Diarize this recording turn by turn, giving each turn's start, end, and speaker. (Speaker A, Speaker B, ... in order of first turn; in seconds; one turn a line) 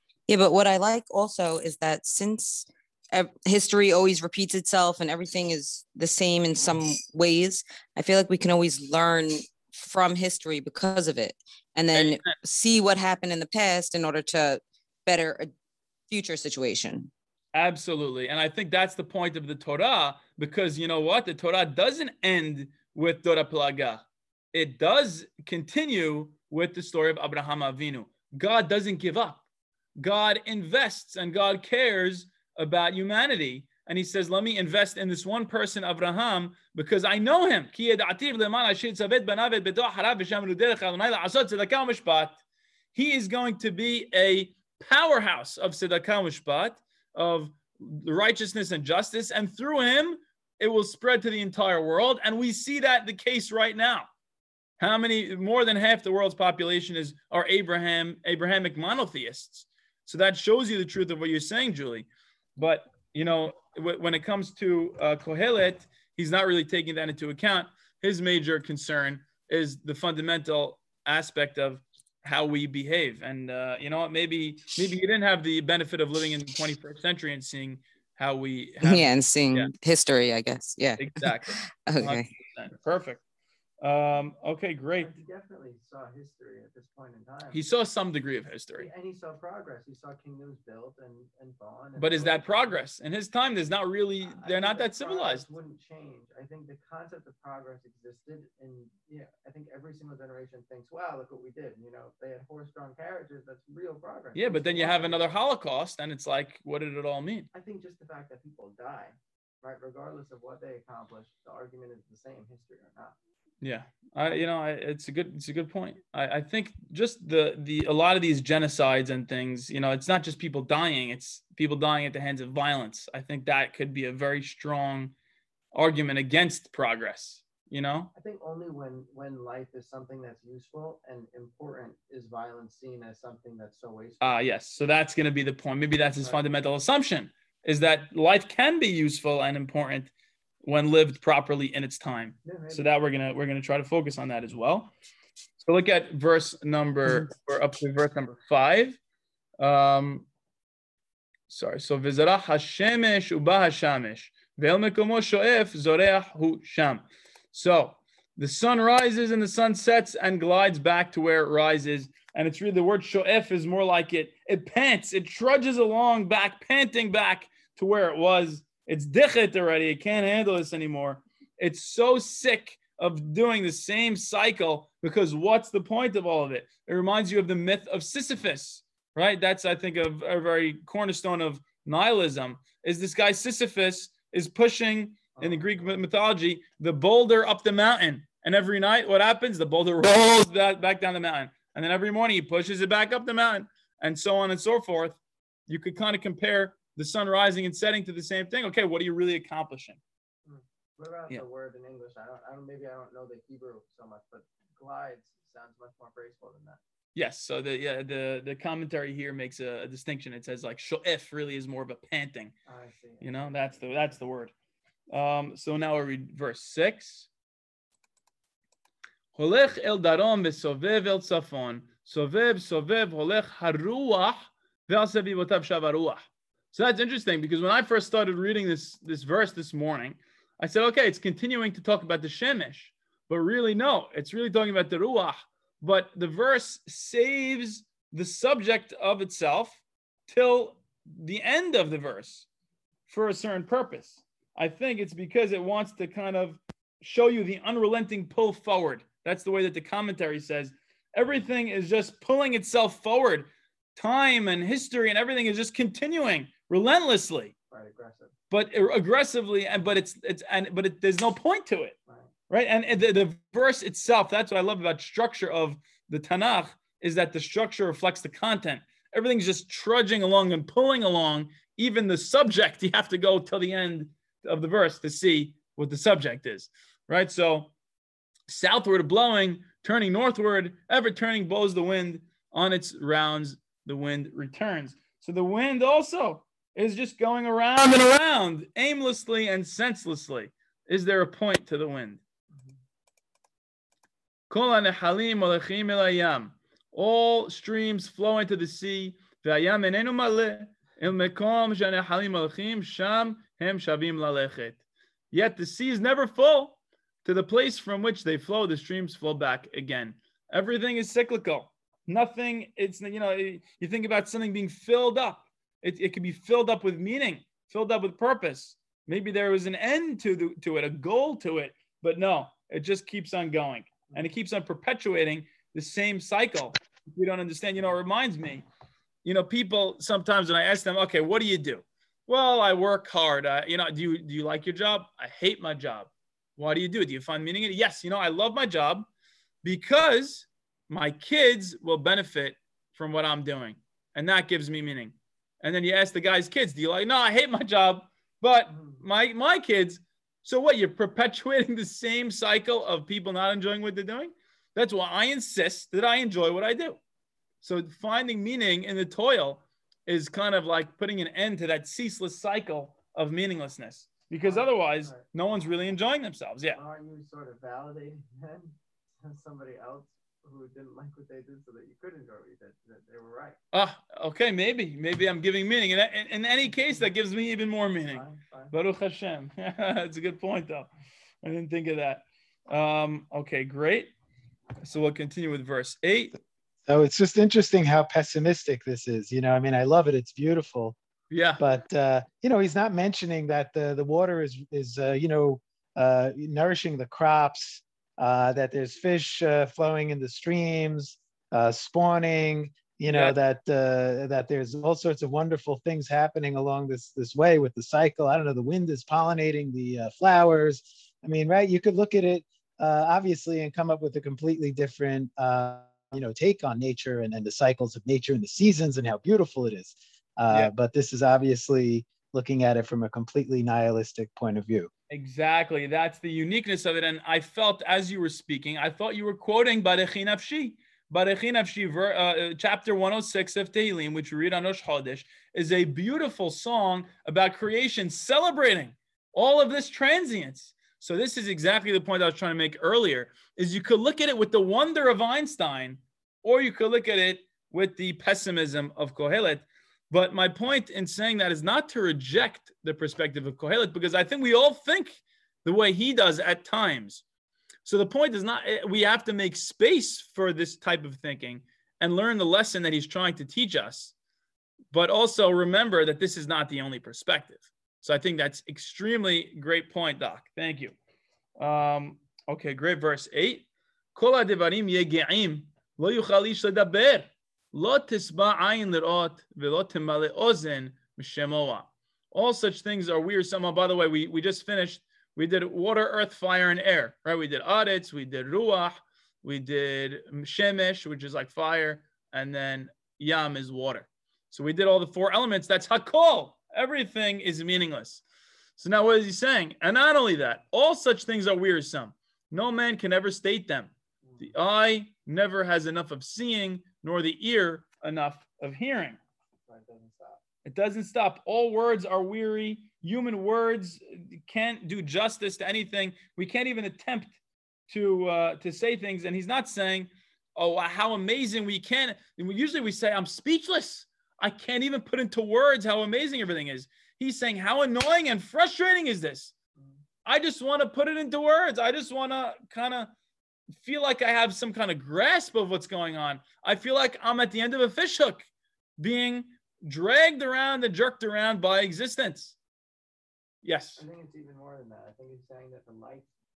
Speaker A: 0.3-15.5
Speaker B: 11.9-12.3
Speaker A: 16.1-17.1
Speaker B: 17.5-29.4
Speaker B: 30.0-42.4
Speaker B: 42.9-54.1
Speaker B: 54.8-79.7
Speaker A: 78.8-82.3
Speaker B: 81.0-83.2
Speaker B: 83.8-85.2
Speaker C: 85.0-87.7
Speaker B: 87.5-88.9
Speaker C: 88.8-92.8
Speaker B: 92.0-95.5
Speaker C: 94.3-105.4
Speaker B: 104.3-107.5
Speaker C: 107.5-113.2
Speaker B: 113.6-125.1
Speaker B: 125.7-128.1
Speaker C: 128.2-134.4
Speaker B: 134.2-140.1
Speaker B: 140.6-144.9
Speaker C: 142.4-142.8
Speaker B: 145.6-149.0
Speaker B: 149.6-150.3
Speaker B: 151.5-200.0
Speaker C: 185.3-186.0
Speaker C: 200.5-206.8
Speaker B: 207.2-212.5
Speaker C: 212.7-214.2
Speaker B: 213.2-214.5
Speaker B: 215.1-217.3
Speaker B: 219.3-242.5
Speaker B: 243.1-257.5
Speaker C: 257.7-258.3
Speaker B: 258.5-262.0
Speaker B: 262.5-277.7
Speaker B: 278.5-292.2
Speaker B: 294.5-304.8
Speaker B: 305.3-328.6
Speaker B: 329.2-339.1
Speaker B: 339.6-357.0
Speaker B: 357.6-366.8
Speaker C: 364.4-365.2
Speaker C: 366.7-373.6
Speaker B: 373.7-380.9
Speaker C: 378.1-378.7
Speaker B: 381.4-384.1
Speaker B: 384.8-386.4
Speaker D: 386.9-391.0
Speaker B: 391.3-391.6
Speaker D: 391.6-424.9
Speaker B: 403.1-403.4
Speaker B: 425.1-457.2
Speaker B: 457.9-464.1
Speaker B: 464.9-470.9
Speaker B: 471.6-498.2
Speaker B: 498.8-509.2
Speaker C: 509.7-510.4
Speaker B: 510.6-517.3
Speaker B: 517.9-529.5
Speaker B: 530.2-533.1
Speaker B: 533.8-538.5
Speaker B: 539.0-542.6
Speaker B: 543.6-544.0
Speaker C: 544.0-546.3